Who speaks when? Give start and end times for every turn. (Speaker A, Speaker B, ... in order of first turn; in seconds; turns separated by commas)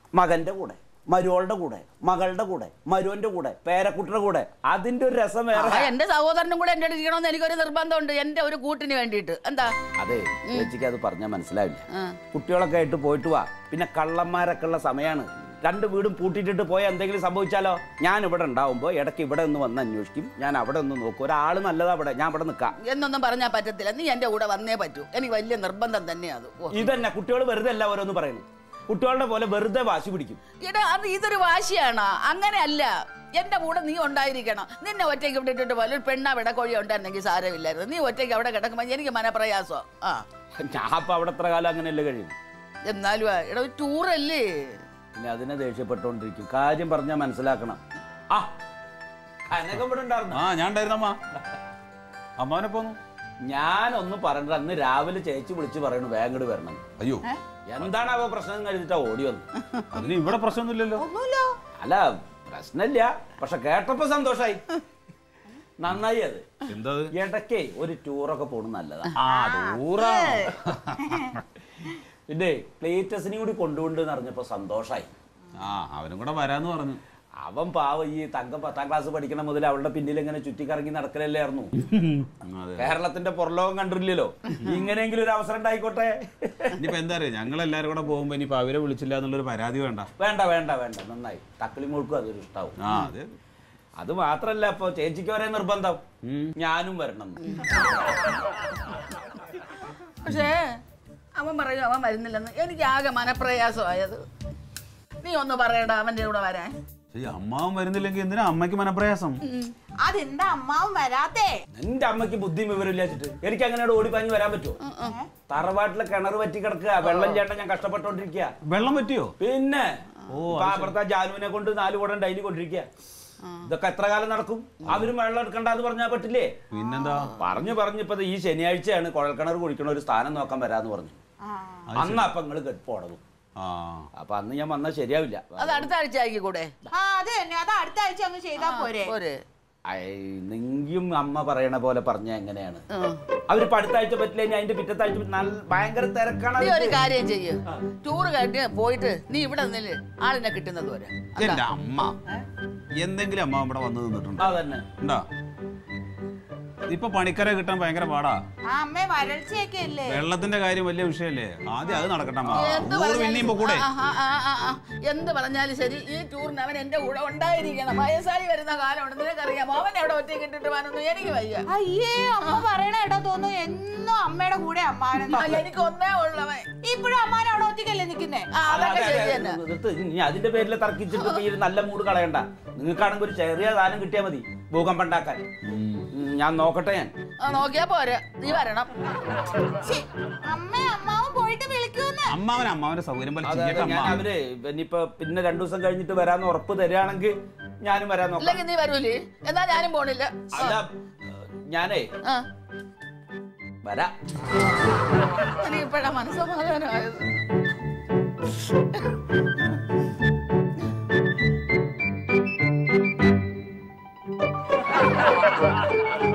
Speaker A: 0.1-5.9, Speaker B: 5.5-9.8, Speaker A: 10.0-22.8, Speaker B: 22.8-27.0, Speaker A: 26.7-30.4, Speaker B: 30.6-40.2, Speaker A: 40.6-42.4, Speaker B: 42.9-44.8, Speaker A: 45.1-48.5, Speaker A: 49.5-50.4, Speaker C: 50.3-51.2, Speaker C: 52.4-53.0, Speaker A: 53.5-56.8, Speaker C: 57.0-57.2, Speaker A: 57.7-59.5, Speaker C: 59.9-61.0, Speaker D: 61.0-61.5, Speaker A: 61.8-64.6, Speaker A: 65.8-66.5, Speaker C: 66.7-67.1, Speaker A: 67.2-69.2, Speaker C: 69.2-71.2, Speaker D: 69.3-71.3, Speaker A: 72.3-75.1, Speaker C: 75.5-77.0, Speaker A: 77.4-81.7, Speaker C: 81.8-83.0, Speaker A: 82.8-86.8, Speaker C: 86.8-90.1, Speaker A: 90.2-92.8, Speaker C: 92.8-93.3, Speaker A: 94.0-96.0, Speaker C: 96.2-96.5, Speaker A: 96.6-97.4, Speaker B: 97.4-97.8, Speaker B: 100.2-100.8, Speaker B: 101.4-104.2, Speaker B: 105.2-106.8, Speaker C: 107.1-109.4, Speaker B: 109.4-109.7, Speaker D: 110.0-111.5, Speaker A: 111.8-114.8, Speaker B: 114.8-115.2, Speaker D: 115.0-115.3, Speaker A: 115.5-118.5, Speaker C: 118.7-119.3, Speaker A: 119.4-119.9, Speaker C: 120.3-121.0, Speaker A: 120.5-122.9, Speaker B: 123.4-123.7, Speaker A: 123.7-126.6, Speaker C: 126.7-127.3, Speaker B: 126.7-127.5, Speaker A: 127.4-131.2, Speaker D: 131.4-131.9, Speaker C: 131.9-132.3, Speaker A: 132.0-133.2, Speaker C: 133.6-134.1, Speaker A: 134.2-135.9, Speaker B: 135.6-136.7, Speaker D: 136.9-139.1, Speaker B: 138.6-139.4, Speaker A: 139.9-142.8, Speaker B: 142.9-143.2, Speaker A: 143.5-147.0, Speaker B: 146.6-151.6, Speaker C: 151.4-152.2, Speaker C: 153.0-155.2, Speaker A: 154.4-154.9, Speaker C: 156.9-158.4, Speaker D: 158.7-160.3, Speaker C: 160.1-163.9, Speaker B: 162.5-171.7, Speaker D: 171.7-175.6, Speaker B: 175.2-176.7, Speaker D: 176.8-178.5, Speaker B: 178.5-179.6, Speaker A: 178.7-185.5, Speaker C: 185.6-186.1, Speaker A: 186.1-187.1, Speaker B: 187.4-188.9, Speaker D: 189.8-192.4, Speaker C: 192.3-194.2, Speaker A: 193.4-198.6, Speaker B: 198.4-200.8, Speaker A: 200.5-202.1, Speaker A: 203.8-204.1, Speaker B: 205.6-207.4